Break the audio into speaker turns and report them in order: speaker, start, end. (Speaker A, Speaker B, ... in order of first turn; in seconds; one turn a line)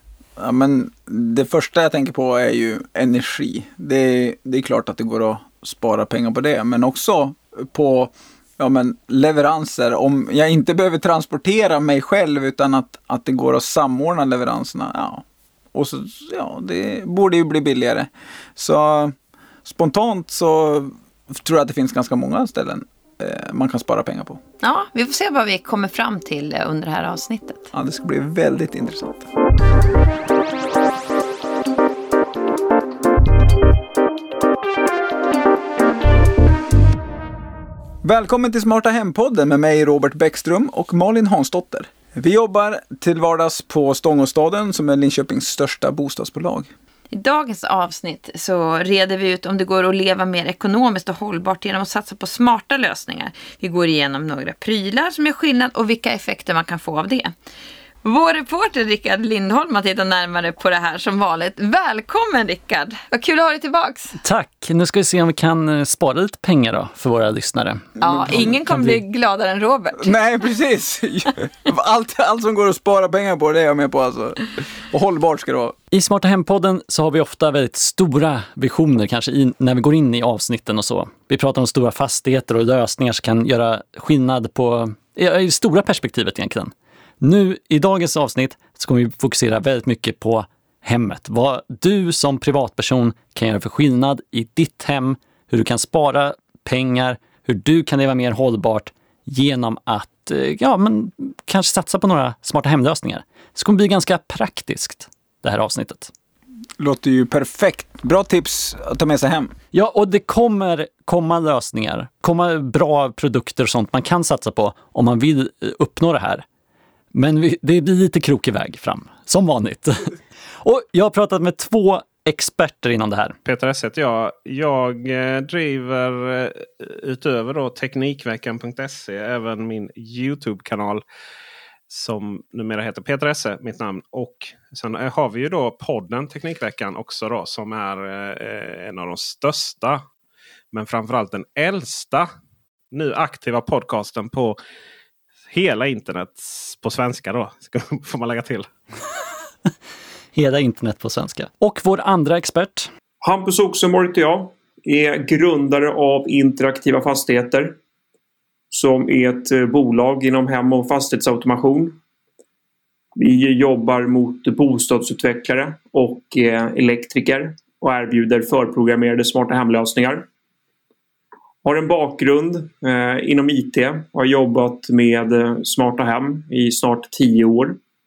Speaker A: 0.4-24.4
Speaker B: 24.6-27.6
Speaker A: 27.7-29.3
Speaker A: 38.0-46.7
Speaker B: 47.1-57.3
Speaker B: 58.0-64.2
Speaker C: 64.2-69.0
Speaker B: 68.0-70.1
Speaker A: 68.0-68.5
Speaker A: 70.0-75.8
Speaker C: 75.9-106.1
Speaker A: 106.8-109.5
Speaker C: 109.7-116.4
Speaker C: 117.1-123.3
Speaker D: 123.4-131.0
Speaker D: 131.9-140.0
Speaker D: 140.7-142.3
Speaker D: 142.9-144.6
Speaker D: 145.5-148.7
Speaker C: 150.3-152.9
Speaker E: 153.2-157.7
Speaker E: 158.7-162.0
Speaker E: 163.2-170.2
Speaker E: 171.6-177.8